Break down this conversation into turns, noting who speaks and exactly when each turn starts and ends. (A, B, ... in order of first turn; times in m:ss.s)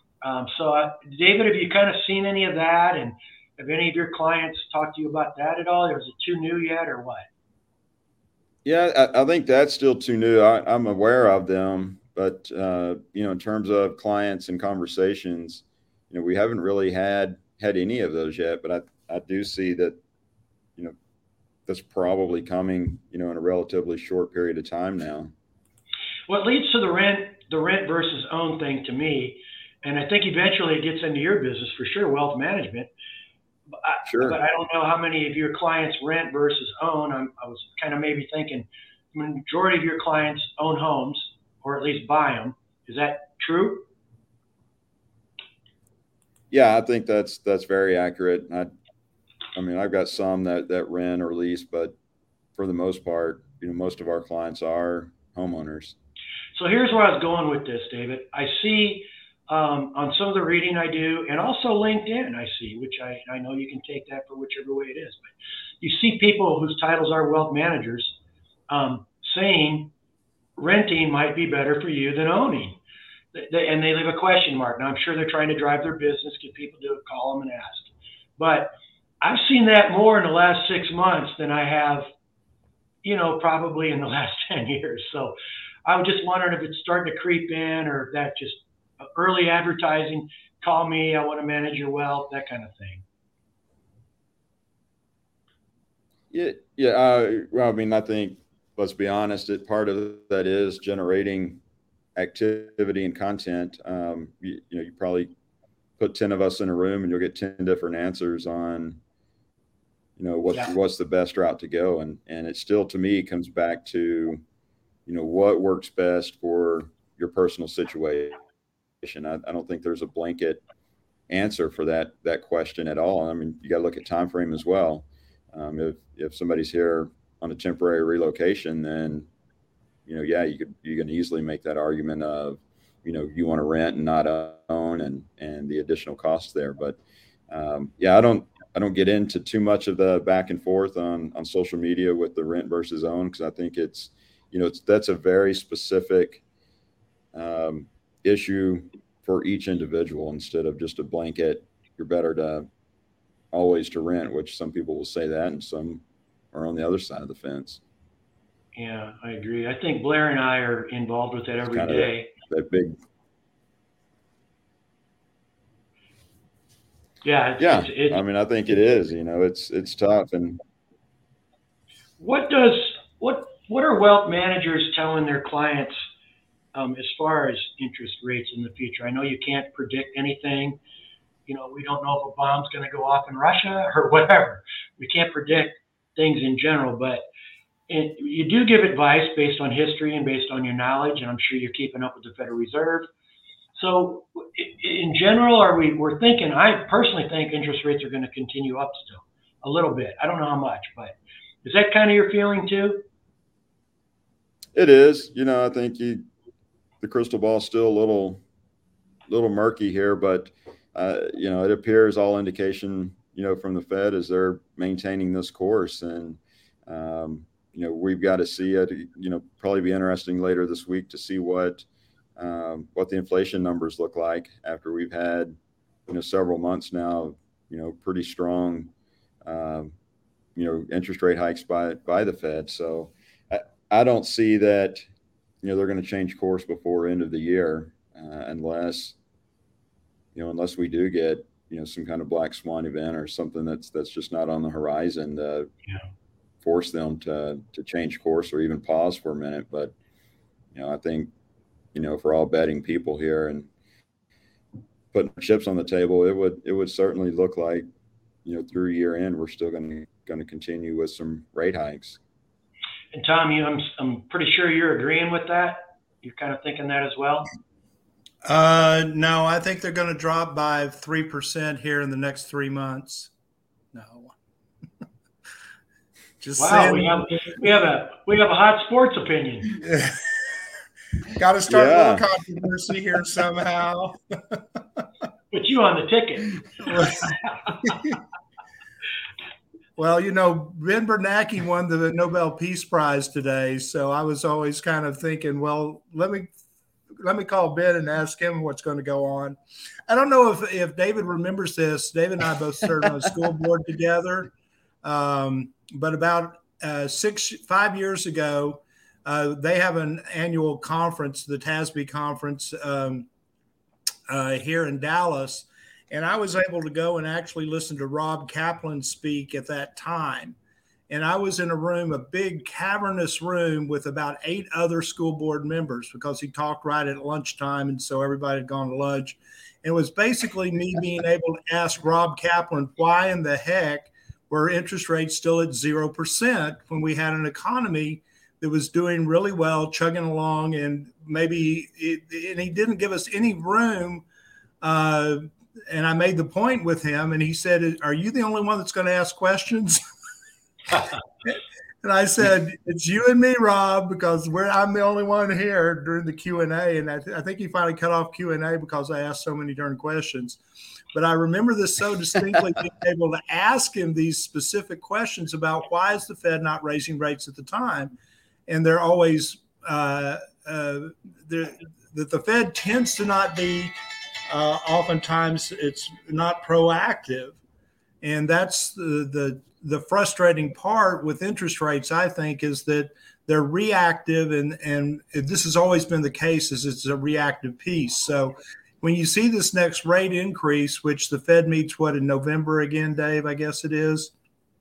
0:00.2-0:07.3 A
0:08.6-0:20.0 B
0:21.7-0:25.3 B
0:26.3-0:32.9 A
0:33.8-0:43.8 A
0:34.0-0:34.4 B
0:46.5-0:48.7 B
0:49.5-0:51.9 B
0:52.6-0:55.9 B
0:56.6-1:08.1 A
1:08.7-1:09.9 A
1:10.6-1:12.8 A
1:13.3-1:22.1 A
1:23.0-1:33.0 A
1:36.3-1:41.6 B
1:42.2-1:45.3 B
1:46.0-1:49.0 B
1:50.2-1:54.4 B
1:55.0-1:58.4 B
1:59.0-2:00.6 B
2:01.3-2:09.3 B
2:10.1-2:17.0 B
2:17.5-2:26.4 B
2:27.3-2:32.7 B
2:33.5-2:36.0 B
2:36.5-2:37.8 B
2:38.8-2:42.3 A
2:41.6-2:43.0 B
2:47.2-2:48.2 A
2:47.6-2:50.6 B
2:52.2-2:56.0 A
2:56.7-3:00.8 A
3:01.5-3:07.2 A
3:07.9-3:13.1 A
3:13.7-3:23.0 A
3:24.7-3:26.2 B
3:27.0-3:28.4 B
3:29.3-3:41.8 B
3:42.4-3:45.6 B
3:46.1-3:48.9 B
3:49.4-3:49.9 B
3:50.6-3:55.0 B
3:55.6-3:59.1 B
4:00.3-4:05.7 B
4:06.6-4:09.9 B
4:10.7-4:11.3 B
4:11.9-4:13.7 B
4:15.1-4:17.8 B
4:18.4-4:22.2 B
4:23.1-4:27.5 A
4:28.4-4:33.3 C
4:33.9-4:34.3 C
4:36.4-4:37.6 C
4:36.6-4:39.7 A
4:39.7-4:40.4 C
4:41.4-4:44.8 C
4:41.7-4:42.2 B
4:45.5-4:47.7 A
4:46.9-4:47.2 C
4:47.8-4:48.1 C
4:50.0-4:56.5 C
4:57.2-4:59.6 C
5:00.1-5:04.5 C
5:05.0-5:13.3 C
5:14.3-5:20.6 C
5:21.1-5:44.2 C
5:44.8-5:50.0 C
5:51.4-6:00.6 C
6:01.1-6:08.1 C
6:08.7-6:13.9 C
6:14.5-6:17.6 C
6:18.2-6:34.3 C